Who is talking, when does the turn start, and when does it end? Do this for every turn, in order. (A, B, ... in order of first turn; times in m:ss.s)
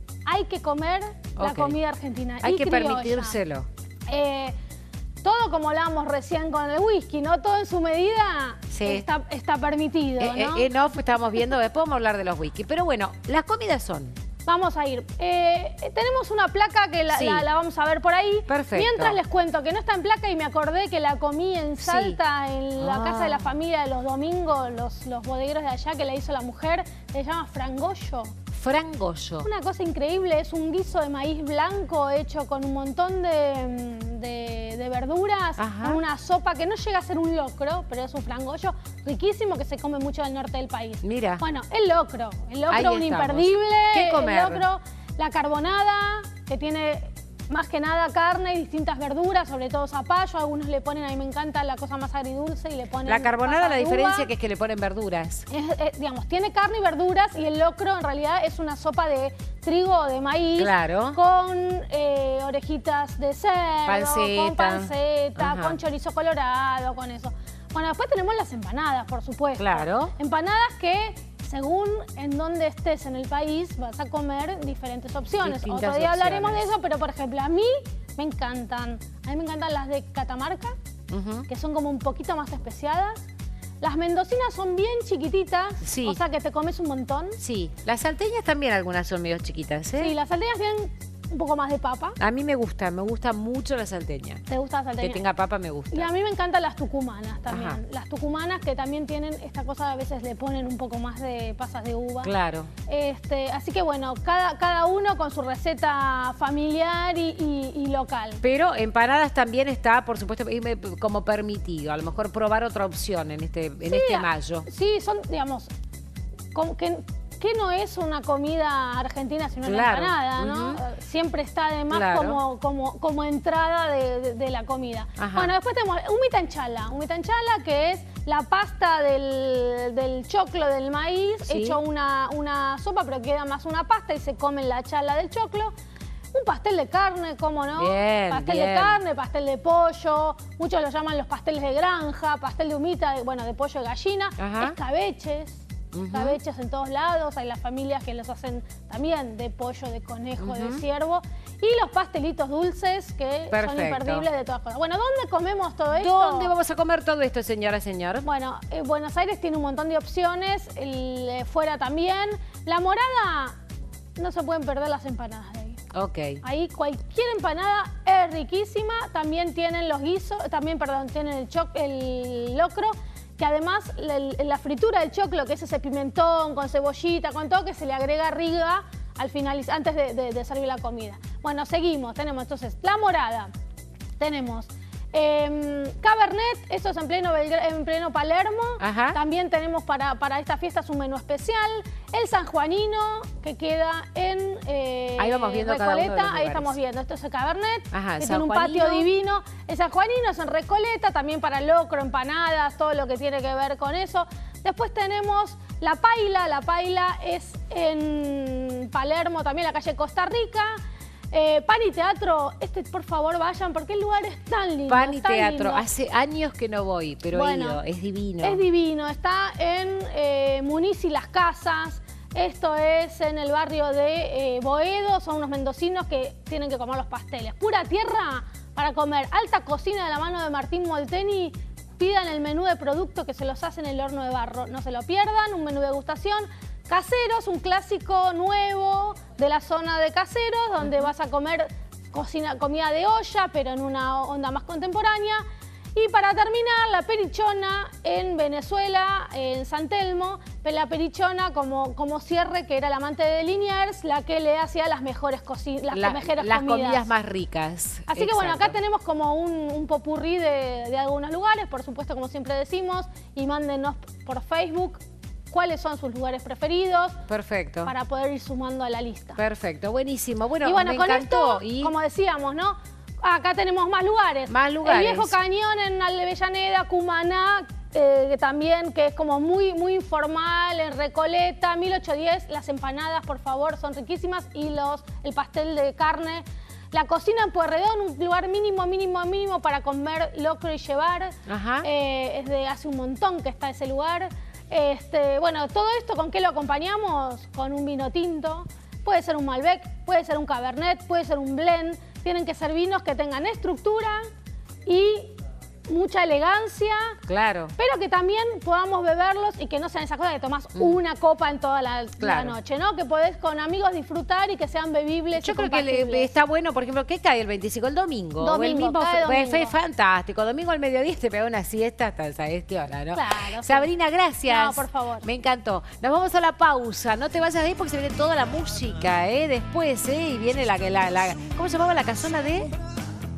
0:00.3-0:03.4 A
0:01.4-0:01.8 B
0:02.4-0:03.7 B
0:04.1-0:04.6 A
0:05.2-0:10.7 A
0:08.7-0:09.1 B
0:10.2-0:14.2 B
0:14.5-0:28.3 A
0:17.1-0:17.5 B
0:18.5-0:19.2 B
0:21.8-0:22.2 B
0:22.8-0:23.5 B
0:28.5-0:29.5 B
0:29.4-0:54.3 A
0:35.6-0:36.0 B
0:41.0-0:41.4 B
0:42.7-0:44.6 B
0:53.1-0:55.5 B
0:55.5-1:20.8 A
1:00.6-1:01.2 B
1:03.9-1:05.8 B
1:09.6-1:10.1 B
1:15.4-1:16.7 B
1:21.1-1:21.5 B
1:21.5-1:23.3 A
1:23.8-1:27.4 A
1:25.8-1:26.2 B
1:27.4-1:30.2 B
1:30.0-1:32.2 A
1:32.2-1:34.4 B
1:34.5-1:35.2 A
1:35.0-1:36.1 B
1:35.9-1:42.3 A
1:37.5-1:37.8 B
1:42.2-1:42.7 B
1:42.9-1:48.4 A
1:48.4-1:54.7 B
1:53.8-1:55.7 A
1:56.5-2:15.7 A
1:59.6-2:00.8 B
2:01.9-2:02.4 B
2:05.2-2:05.5 B
2:11.5-2:11.8 B
2:16.3-2:25.6 A
2:17.8-2:19.0 B
2:24.4-2:24.8 B
2:25.9-2:26.4 B
2:26.1-2:36.5 A
2:30.4-2:30.8 B
2:33.5-2:34.3 B
2:36.0-2:38.3 B
2:38.2-2:43.6 A
2:44.2-2:45.8 A
2:45.9-2:46.4 B
2:46.4-3:03.5 A
3:04.2-3:30.8 A
3:08.8-3:09.2 B
3:15.2-3:16.7 B
3:17.9-3:19.1 B
3:31.3-3:35.9 A
3:34.9-3:38.6 B
3:37.3-3:37.8 A
3:38.4-4:05.4 A
4:06.0-4:17.1 A
4:15.9-4:18.8 B
4:18.1-4:25.0 A
4:25.5-4:27.2 A
4:27.3-4:27.9 B
4:27.8-4:29.4 A
4:29.4-4:31.9 B
4:30.6-5:04.2 A
4:34.5-4:35.4 B
4:51.5-4:51.9 B
5:04.9-5:05.4 A
5:05.9-5:07.2 A
5:07.3-5:07.7 B
5:07.8-5:16.3 A
5:12.2-5:12.6 B
5:15.4-5:32.7 B
5:18.4-5:19.8 A
5:23.1-5:23.9 A
5:24.5-5:25.3 A